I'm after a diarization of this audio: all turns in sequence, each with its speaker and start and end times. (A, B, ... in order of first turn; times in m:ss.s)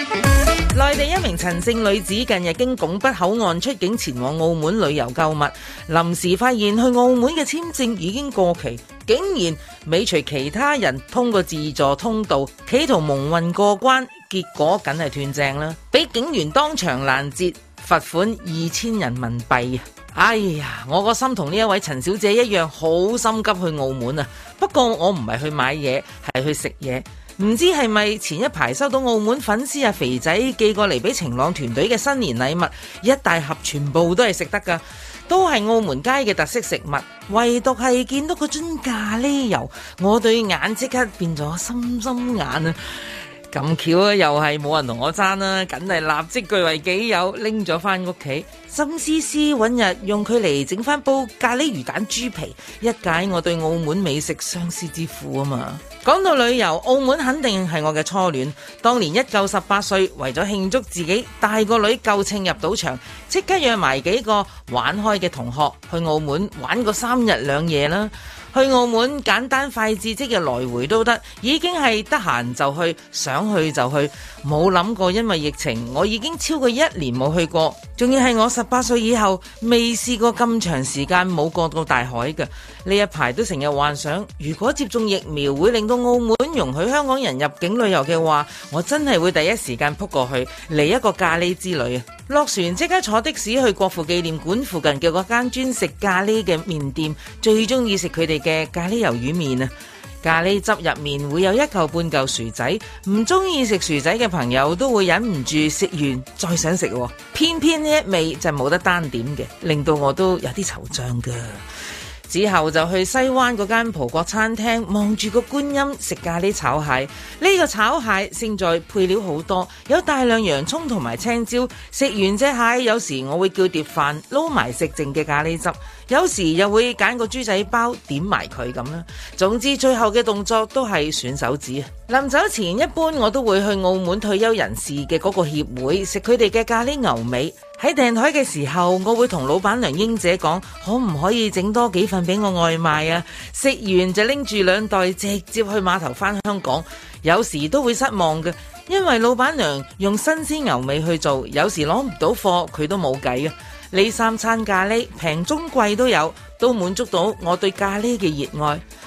0:00.7-0:43.0 A
0:43.5-1:39.7 A
1:40.2-1:51.6 A
1:52.3-2:38.8 A